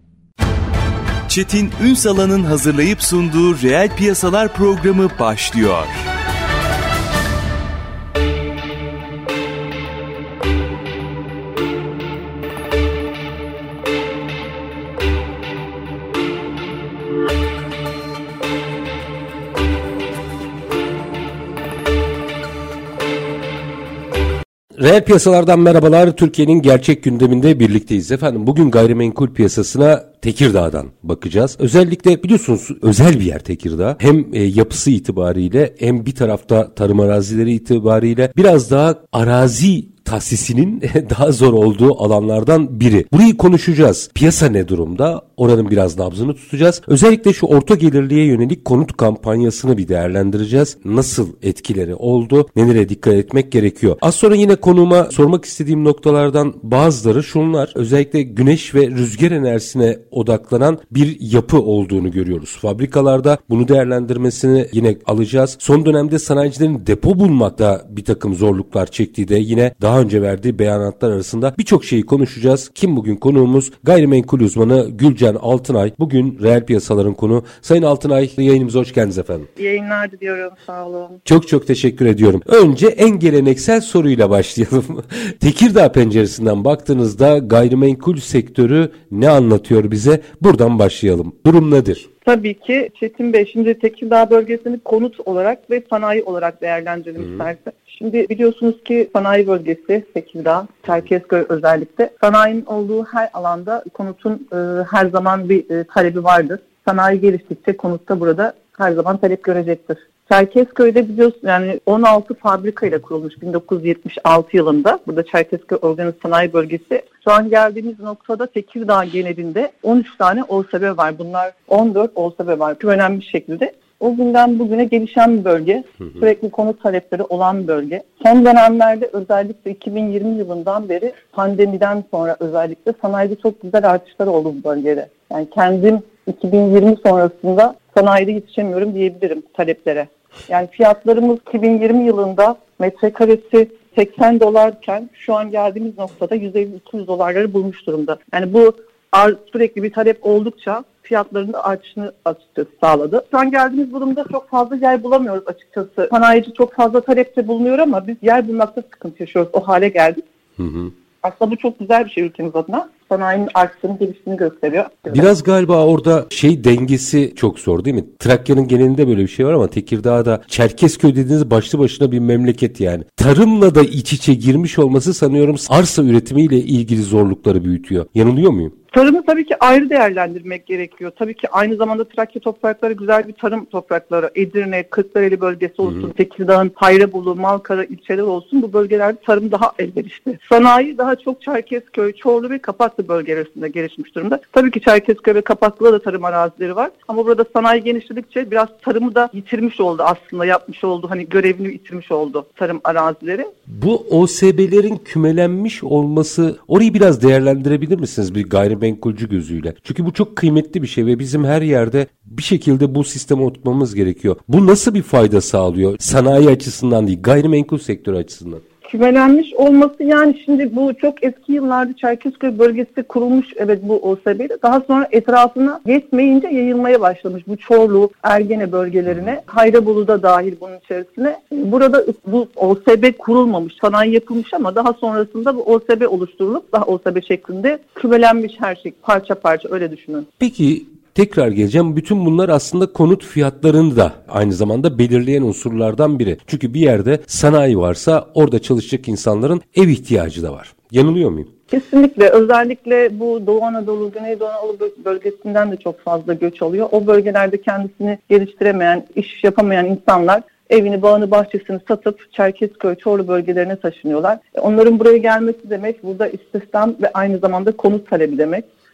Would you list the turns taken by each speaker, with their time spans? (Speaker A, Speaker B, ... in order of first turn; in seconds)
Speaker A: 1.3-6.0
Speaker B: 24.8-79.5, 81.2-92.1, 97.2-97.5, 160.6-160.9, 165.1-178.7, 203.7-218.6, 240.4-251.5
Speaker C: 79.5-81.2, 92.2-160.2, 161.2-165.3, 178.9-203.5, 218.8-240.3, 251.7-268.6